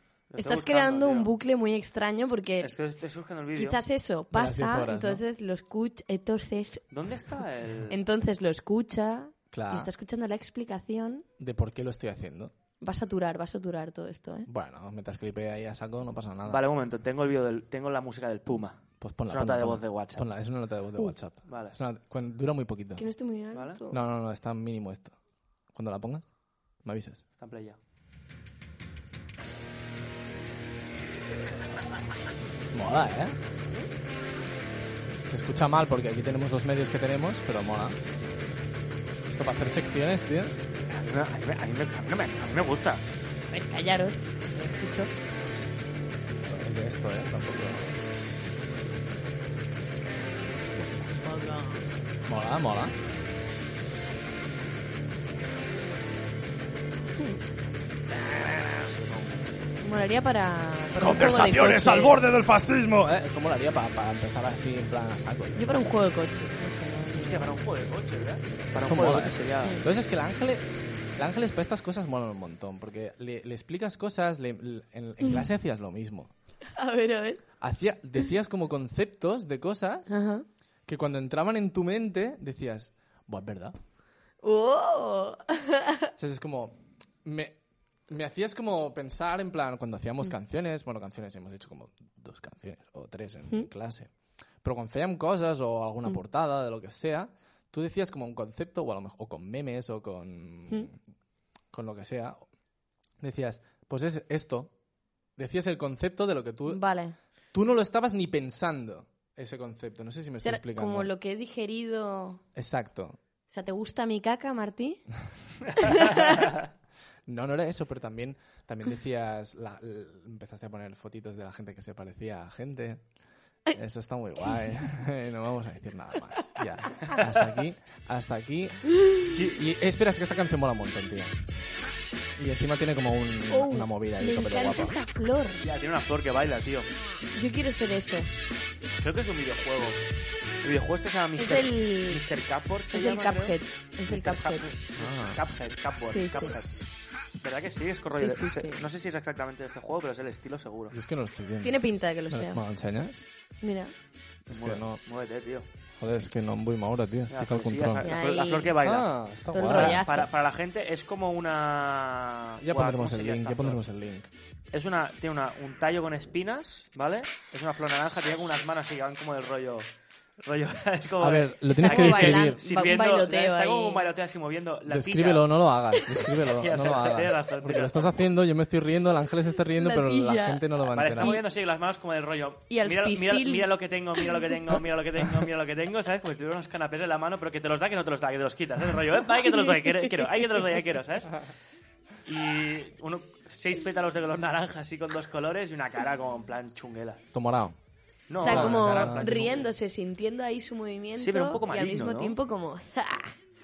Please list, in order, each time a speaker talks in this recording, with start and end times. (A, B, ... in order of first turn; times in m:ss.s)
0:00.3-0:01.3 A
0:00.4-0:02.7 B
0:02.6-0:03.8 A
0:03.6-0:06.8 B
0:04.3-0:05.2 C
0:06.9-0:08.0 A
0:07.9-0:11.2 B
0:09.5-0:09.9 C
0:11.4-0:12.5 C
0:12.8-0:14.5 B
0:14.5-0:16.6 C
0:16.5-0:20.3 A
0:19.0-0:23.1 C
0:21.5-0:21.8 A
0:23.0-0:24.0 B
0:23.5-0:23.8 A
0:23.9-0:25.2 C
0:25.7-0:26.3 C
0:26.8-0:27.2 C
0:27.4-0:27.8 A
0:32.7-0:33.4 C
0:35.2-0:38.0 C
0:39.3-0:40.6 C
0:40.9-0:43.0 A
0:43.5-0:45.1 B
0:46.4-0:48.0 C
0:51.0-0:51.8 B
0:52.3-0:52.9 C
0:58.3-0:58.8 C
0:58.8-0:59.4 A
0:59.8-1:02.2 B
1:01.0-1:05.7 C
1:05.6-1:07.6 B
1:07.2-1:09.8 A
1:08.7-1:16.3 C
1:16.7-1:17.4 B
1:17.6-1:20.2 C
1:20.1-1:20.4 B
1:20.9-1:23.8 C
1:24.4-1:26.1 B
1:26.2-1:27.6 C
1:28.1-1:41.0 C
1:41.7-1:42.4 C
1:43.2-1:44.7 C
1:45.4-1:46.8 C
1:46.7-1:47.2 B
1:47.5-1:51.1 C
1:50.4-1:52.4 B
1:52.6-1:53.2 C
1:53.5-1:55.0 B
1:55.8-1:56.4 B
1:57.3-2:03.1 C
2:03.7-2:11.4 C
2:09.0-2:09.2 B
2:09.3-2:09.6 A
2:12.4-2:15.0 C
2:13.5-2:15.6 B
2:15.6-2:16.9 A
2:17.3-2:18.3 B
2:19.0-2:20.0 A
2:20.6-2:26.8 A
2:21.4-2:22.2 B
2:22.9-2:24.7 B
2:25.0-2:25.4 C
2:26.0-2:26.6 B
2:27.4-2:31.0 A
2:28.1-2:28.8 B
2:30.9-2:33.2 C
2:31.6-2:32.6 B
2:33.6-2:33.9 B
2:34.5-2:35.0 C
2:34.5-2:35.7 A
2:36.0-2:38.1 C
2:37.3-2:39.1 A
2:38.0-2:38.8 B
2:38.8-2:40.0 C
2:39.5-2:40.3 B
2:39.6-2:43.8 A
2:42.6-2:44.3 C
2:44.7-2:55.5 A
2:51.2-2:52.6 C
2:51.7-2:54.1 B
2:54.9-3:01.4 C
2:56.1-2:58.2 A
2:59.7-3:01.4 B
3:00.9-3:11.5 A
3:02.7-3:04.5 B
3:09.4-3:10.5 B
3:12.2-3:17.2 A
3:17.3-3:17.8 C
3:18.3-3:19.7 A
3:18.4-3:23.4 B
3:18.4-3:19.5 C
3:21.2-3:22.4 A